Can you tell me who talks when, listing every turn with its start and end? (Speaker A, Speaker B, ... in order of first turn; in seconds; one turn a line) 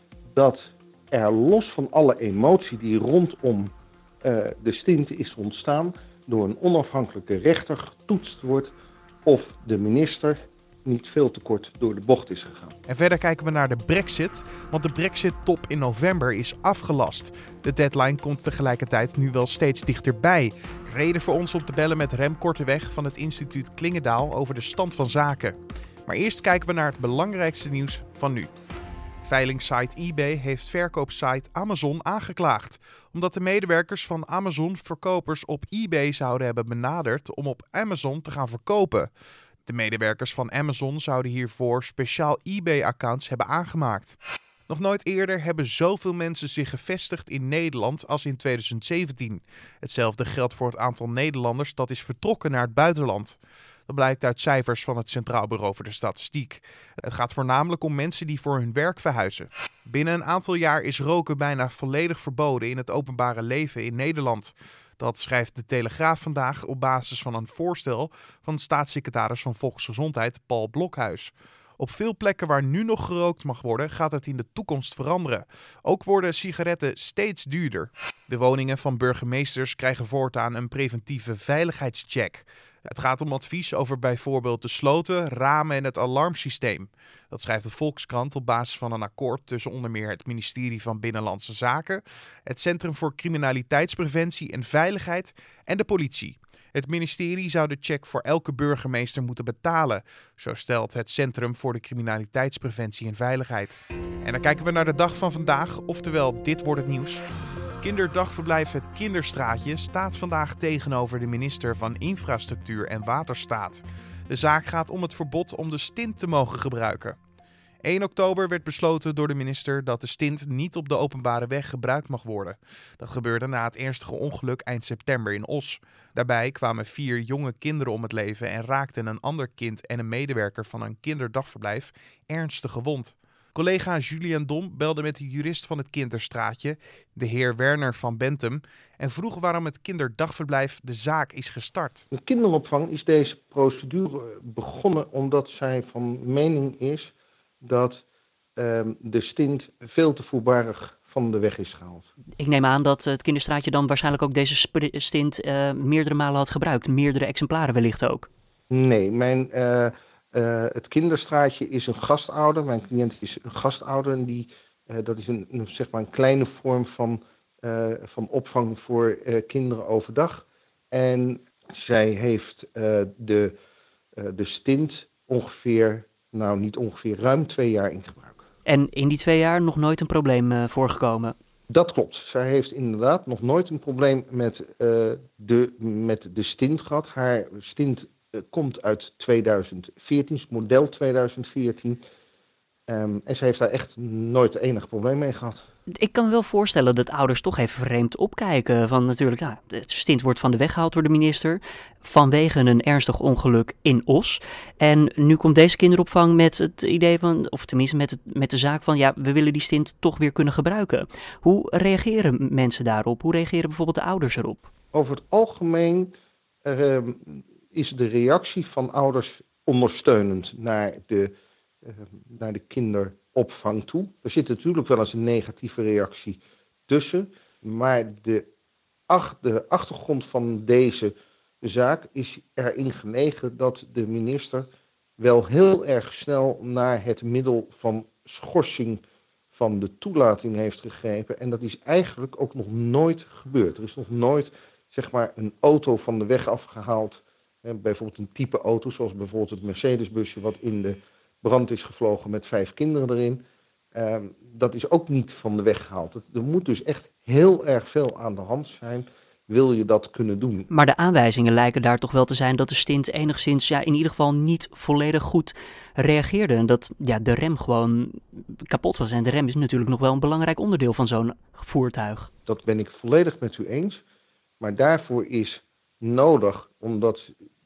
Speaker A: 0.3-8.7
Speaker A: 9.2-12.8
Speaker B: 12.9-25.6
Speaker B: 26.1-28.5
Speaker B: 29.2-39.1
Speaker B: 39.7-44.2
Speaker B: 44.7-53.4
Speaker B: 53.9-107.2
Speaker B: 107.8-117.2
Speaker B: 117.8-142.1
Speaker A: 142.1-148.0
Speaker A: 148.6-152.1
Speaker C: 152.4-158.3
Speaker A: 158.7-173.6
Speaker A: 174.2-178.4
Speaker C: 178.7-181.4
Speaker A: 181.7-192.0
Speaker A: 192.9-195.6
Speaker C: 195.9-214.7
Speaker A: 214.9-216.1
Speaker A: 216.7-221.3
Speaker A: 221.8-228.4
Speaker A: 229.1-234.7
Speaker A: 235.2-239.0
Speaker A: 239.5-253.4
Speaker A: 253.9-260.7
Speaker C: 260.7-272.3
Speaker A: 272.5-274.0
Speaker A: 274.6-277.3